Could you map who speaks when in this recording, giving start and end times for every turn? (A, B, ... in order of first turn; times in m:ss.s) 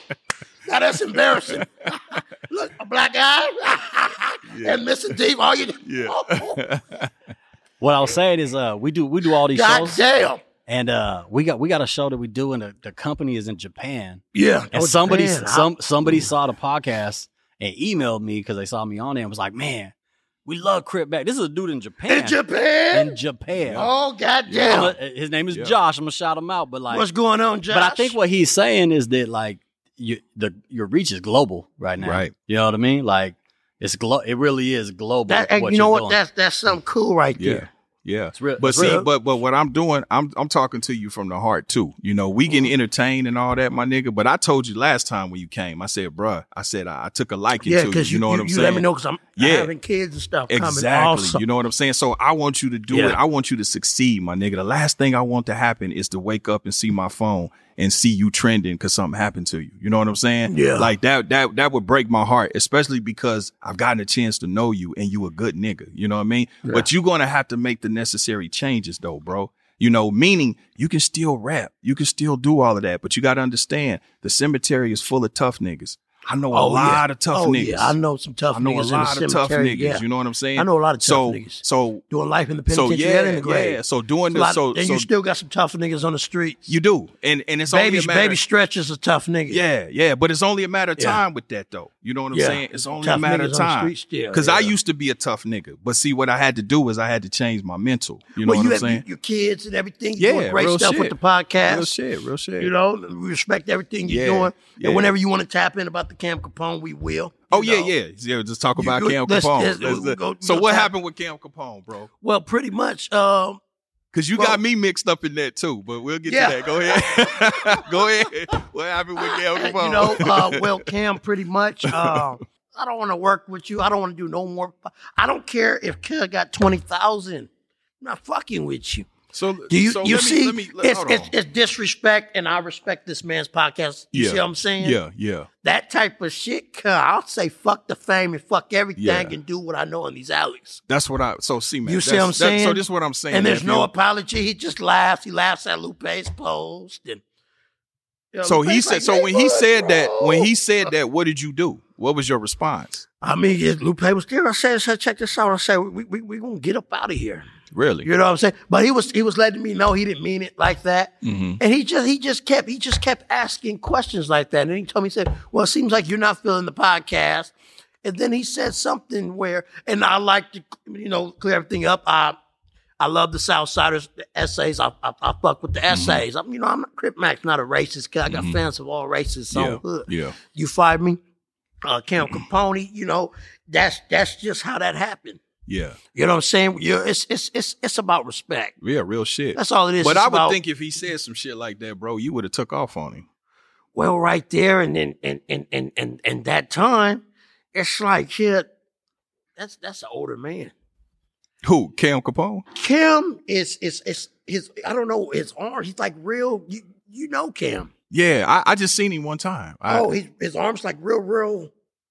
0:00.6-0:06.6 A
0:01.5-0:01.9 B
0:04.5-0:04.8 B
0:05.8-0:07.1 B
0:07.8-0:10.0 C
0:09.5-0:10.4 A
0:10.6-0:14.2 C
0:14.3-0:15.7 A
0:14.7-0:19.9 C
0:20.4-0:23.9 C
0:22.1-0:23.2 A
0:23.6-0:23.9 B
0:23.8-0:24.9 A
0:24.5-0:24.8 B
0:24.6-0:27.0 C
0:25.5-0:25.8 B
0:26.9-0:28.2 A
0:27.7-0:36.2 C
0:32.0-0:32.3 B
0:35.3-0:37.7 A
0:37.4-0:48.8 B
0:38.3-0:39.0 C
0:38.8-0:39.1 A
0:47.6-0:51.4 A
0:49.4-0:49.7 B
0:50.5-1:18.0 B
0:52.9-0:53.2 A
1:00.5-1:00.9 A
1:16.5-1:20.0 A
1:18.5-1:22.0 B
1:20.6-1:23.8 A
1:22.7-1:25.1 B
1:24.3-1:26.7 A
1:26.7-1:28.4 B
1:27.7-1:29.6 A
1:29.5-1:39.0 B
1:32.3-1:34.7 A
1:38.4-1:41.9 A
1:40.2-1:42.7 B
1:42.6-1:47.9 A
1:44.1-1:45.1 B
1:47.5-1:52.1 B
1:48.8-1:50.9 A
1:52.2-1:53.6 A
1:54.1-2:00.7 B
1:56.2-1:58.0 A
1:59.2-2:07.5 A
2:01.8-2:02.3 B
2:08.0-2:09.1 A
2:09.3-2:11.3 B
2:09.7-2:15.0 A
2:14.1-2:15.5 B
2:15.6-2:20.8 A
2:19.0-2:19.3 B
2:20.9-2:23.9 B
2:21.8-2:27.2 A
2:28.3-2:30.5 A
2:28.4-2:33.0 B
2:33.2-2:37.5 A
2:37.7-2:38.1 B
2:38.0-2:52.4 A
2:41.2-2:41.6 B
2:53.0-3:01.2 A
2:55.9-2:56.2 B
2:58.3-2:58.6 B
2:59.5-3:00.4 B
3:01.8-3:05.4 A
3:05.7-3:06.0 B
3:06.1-3:08.7 A
3:08.8-3:13.2 B
3:09.5-3:10.6 A
3:13.9-3:18.7 A
3:19.6-3:20.7 A
3:21.6-3:22.6 B
3:22.7-3:27.9 A
3:28.1-3:30.1 B
3:29.9-3:31.7 A